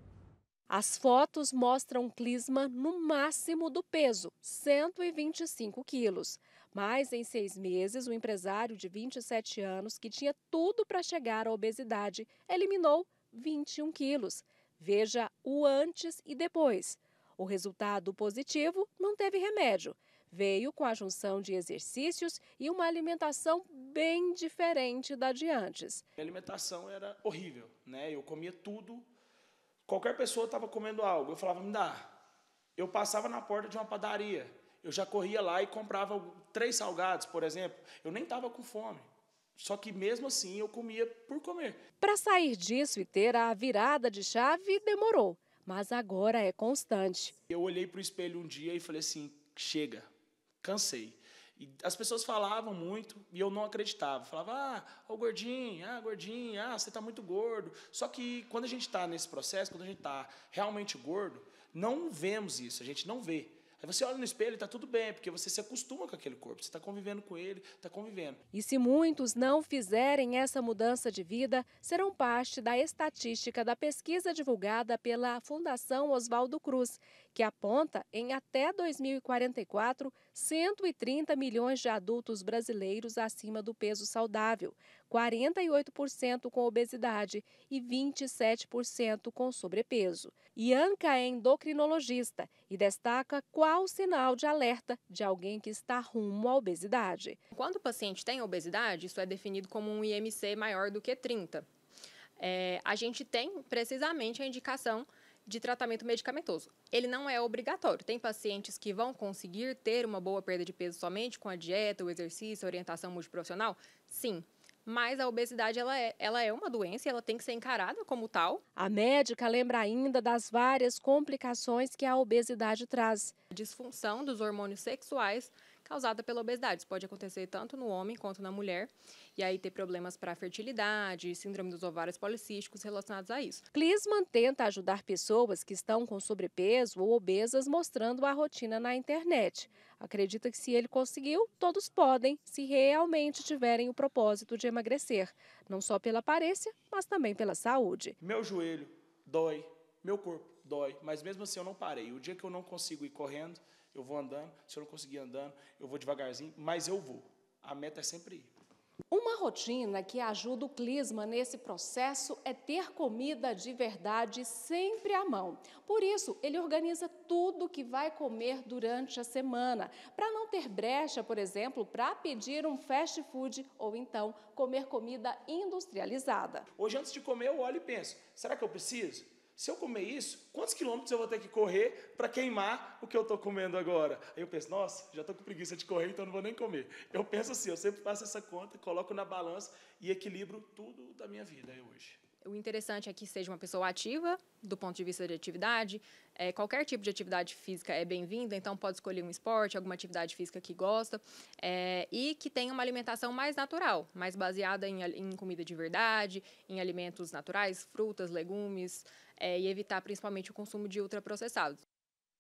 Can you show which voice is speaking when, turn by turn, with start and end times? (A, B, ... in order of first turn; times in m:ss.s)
0:00.7-0:26.0 A
0:26.2-0:29.1 B
0:29.9-0:32.1 B
0:32.8-0:41.8 B
0:42.0-0:47.4 A
0:47.5-0:50.1 B
0:50.6-1:08.4 B
1:08.5-1:37.4 A
1:37.5-1:41.7 C
1:42.4-1:58.6 C
1:58.8-2:03.3 A
2:03.5-2:13.6 C
2:13.7-2:28.2 A
2:28.2-2:38.5 B
2:39.1-2:56.7 A
2:56.8-3:12.2 B
3:12.4-3:31.8 C